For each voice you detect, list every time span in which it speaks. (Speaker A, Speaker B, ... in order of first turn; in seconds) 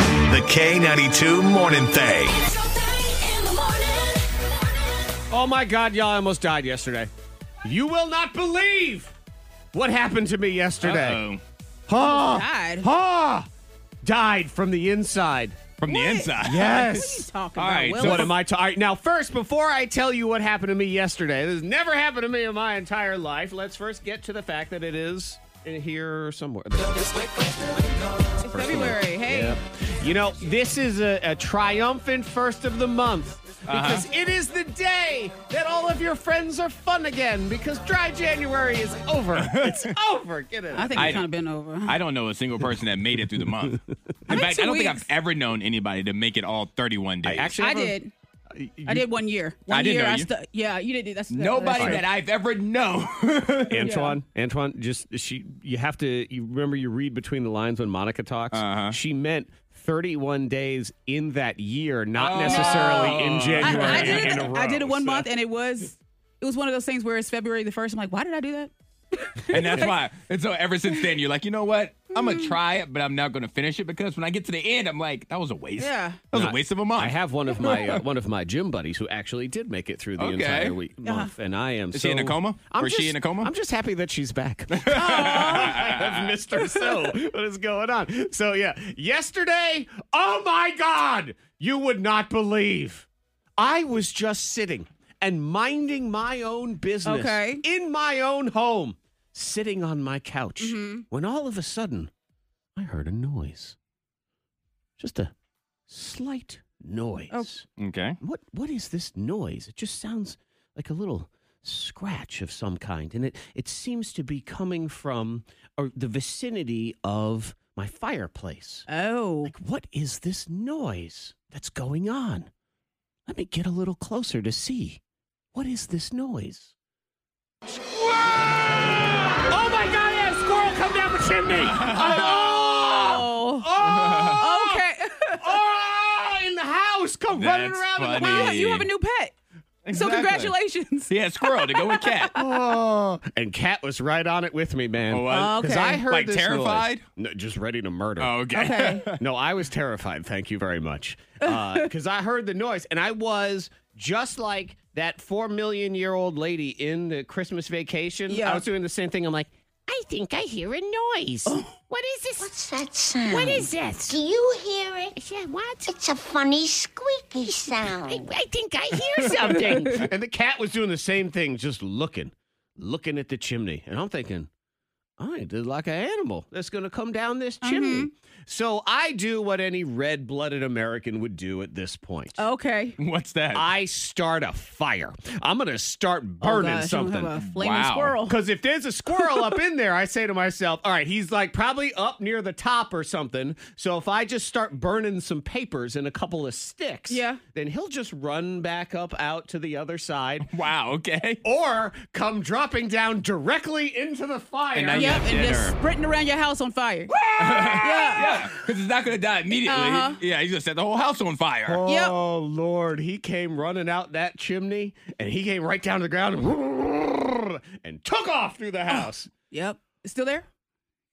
Speaker A: 0.3-2.4
Speaker B: 5.3-7.1, 7.6-9.1, 9.7-11.2, 11.9-13.5, 14.0-15.6, 16.4-17.3, 18.0-27.9, 28.4-41.2, 47.2-48.0, 48.5-49.1, 51.6-52.0, 53.7-65.3, 76.3-93.0, 93.6-102.1, 102.8-103.8, 105.0-105.3, 105.9-107.7, 108.2-118.9, 119.4-122.5, 123.2-125.0, 125.5-126.7, 127.7-138.6, 142.3-148.5, 149.1-162.7, 163.2-164.2, 165.1-166.0, 167.9-174.5, 175.2-182.4, 183.5-187.3, 188.2-200.5, 201.4-205.2, 207.2-208.6, 211.7-219.3
Speaker C: 10.8-11.4, 15.8-16.8, 17.6-18.4, 33.6-34.1, 39.3-39.9, 40.9-41.3, 41.8-47.5, 49.7-50.3, 51.3-54.0, 58.5-59.0, 62.1-64.5, 69.5-78.0, 80.2-80.8, 81.9-83.5, 84.7-86.4, 107.8-108.2, 131.6-132.7, 133.8-134.5, 137.3-138.9, 139.8-140.6, 141.1-142.4, 145.1-147.0, 148.2-149.2, 183.0-183.7, 187.3-188.2, 200.4-201.4, 204.7-205.8, 207.3-211.8
Speaker D: 12.0-12.9, 15.8-18.3, 28.4-29.6, 40.7-42.0, 44.3-45.1, 47.6-48.1, 48.9-52.0, 53.8-54.2, 62.3-70.0, 72.1-72.6, 75.8-76.2, 81.0-81.3, 84.9-85.8, 97.0-97.6, 100.6-101.0, 118.9-119.5, 133.0-133.7, 134.4-135.4, 138.1-139.3, 139.9-142.4, 145.2-146.0, 148.5-149.1, 158.3-158.6, 161.5-161.7, 177.6-178.1, 182.4-183.0, 186.4-188.4, 197.1-197.4, 204.9-207.1, 207.8-208.2, 209.6-210.2, 211.8-212.1, 218.9-220.4
Speaker E: 162.4-165.1, 165.9-168.2